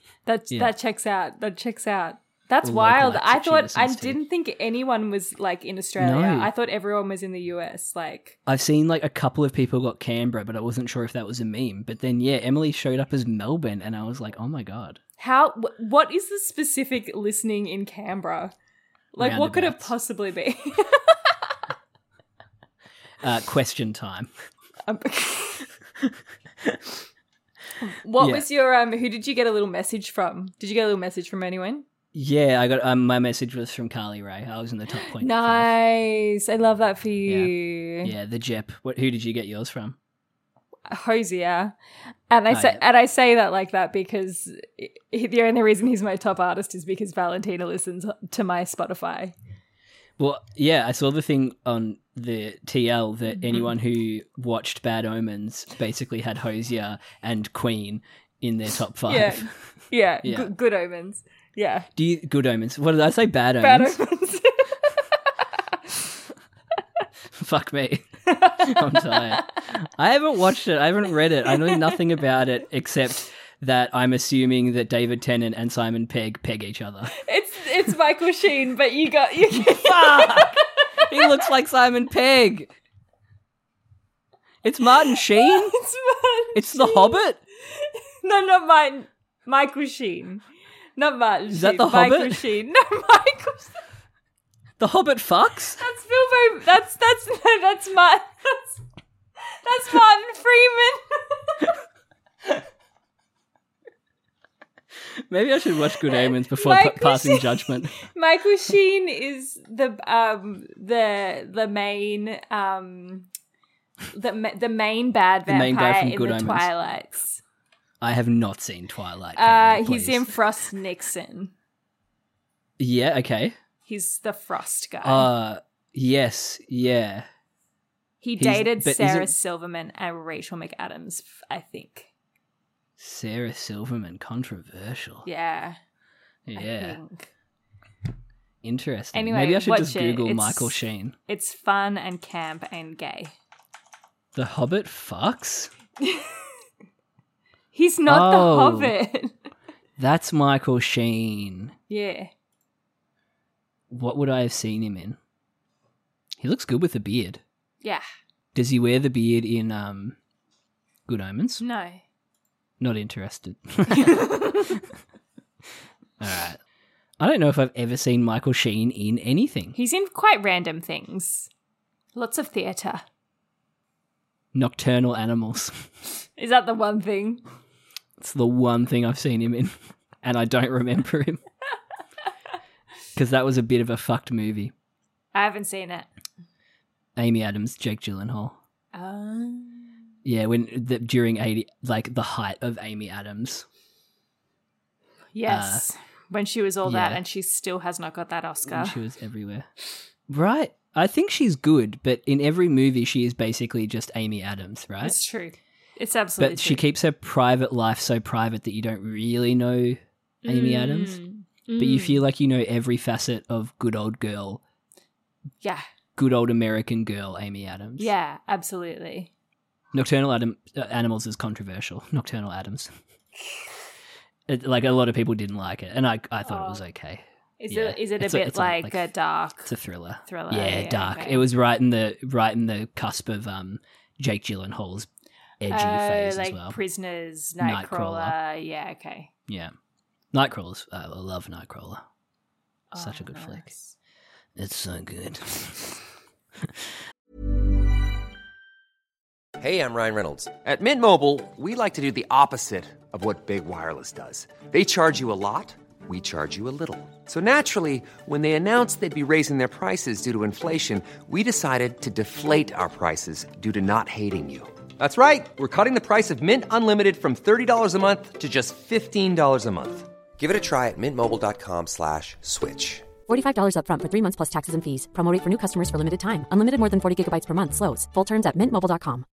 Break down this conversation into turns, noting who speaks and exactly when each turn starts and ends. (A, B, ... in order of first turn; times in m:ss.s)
0:00.3-0:08.4 A
0:02.6-0:04.2 B
0:06.0-0:06.5 B
0:08.5-0:15.0 B
0:15.2-0:18.5 A
0:19.1-0:21.6 A
0:19.2-0:19.9 B
0:23.2-0:24.3 B
0:24.9-0:25.7 A
0:26.0-0:26.8 B
0:27.8-0:31.8 A
0:28.2-0:28.5 B
0:32.1-0:35.7 B
0:35.2-0:38.1 A
0:37.3-0:40.0 B
0:40.9-0:41.8 A
0:42.3-0:49.3 A
0:42.5-0:42.8 B
0:50.2-0:59.6 B
0:59.1-1:01.9 A
1:00.2-1:00.5 B
1:02.0-1:04.0 B
1:03.6-1:05.0 A
1:07.3-1:17.2 B
1:08.3-1:09.5 A
1:11.5-1:11.9 A
1:17.2-1:21.4 A
1:19.5-1:22.7 B
1:24.6-1:25.8 B
1:25.1-1:27.2 A
1:26.5-1:27.4 B
1:27.8-1:30.4 A
1:31.0-1:33.8 A
1:31.5-1:32.5 B
1:34.8-1:35.8 B
1:35.8-1:38.8 A
1:39.6-1:41.7 A
1:45.3-1:48.0 B
1:46.1-1:53.3 A
1:54.1-1:57.4 A
1:55.5-1:56.7 B
1:58.0-2:00.3 B
1:59.4-2:01.5 A
2:02.8-2:03.6 B
2:03.9-2:05.3 A
2:05.0-2:07.3 B
2:08.2-2:12.1 A
2:08.4-2:09.3 B
2:13.0-2:15.3 B
2:15.2-2:15.8 A
2:16.5-2:17.0 B
2:16.6-2:17.3 A
2:18.6-2:21.2 B
2:19.1-2:20.8 A
2:21.3-2:23.3 A
2:24.3-2:25.7 B
2:26.0-2:26.4 A
2:27.7-2:29.4 A
2:28.1-2:28.9 B
2:30.0-2:31.7 B
2:31.9-2:32.3 A
2:33.9-2:35.2 B
2:36.4-2:37.4 B
2:38.6-2:40.2 B
2:41.1-2:41.6 B
2:41.6-2:42.0 A
2:42.8-2:44.8 B
2:44.0-2:44.7 A
2:46.2-2:46.6 B
2:47.2-2:49.8 B
2:49.8-2:51.5 A
2:52.2-2:53.0 A
2:54.5-2:55.9 B
2:56.4-2:57.4 A
2:58.2-3:01.4 B
3:03.2-3:04.7 B
3:05.3-3:06.1 A
3:07.2-3:08.6 B
3:08.9-3:09.9 A
3:10.2-3:13.7 B
3:15.3-3:19.0 A
3:15.5-3:15.9 B
3:16.8-3:17.2 B
3:18.6-3:19.7 B
3:20.3-3:25.2 B
3:25.0-3:26.8 A
3:26.4-3:31.2 B
3:30.4-3:32.2 A
3:31.8-3:34.6 B
3:36.2-3:38.1 B
3:38.0-3:39.3 A
3:39.9-3:42.9 B
3:44.5-3:49.1 B
3:46.5-3:46.8 A
3:47.6-3:49.7 A
3:49.6-3:55.1 B
3:50.3-3:51.5 A
3:55.6-3:56.8 B
3:55.7-3:59.3 A
3:57.6-3:58.4 B
3:59.5-3:59.7 B
4:00.3-4:02.0 B
4:02.9-4:03.9 A
4:03.0-4:03.7 B
4:04.6-4:05.9 B
4:06.6-4:06.9 B
4:09.6-4:33.1 C
4:33.3-4:39.2 D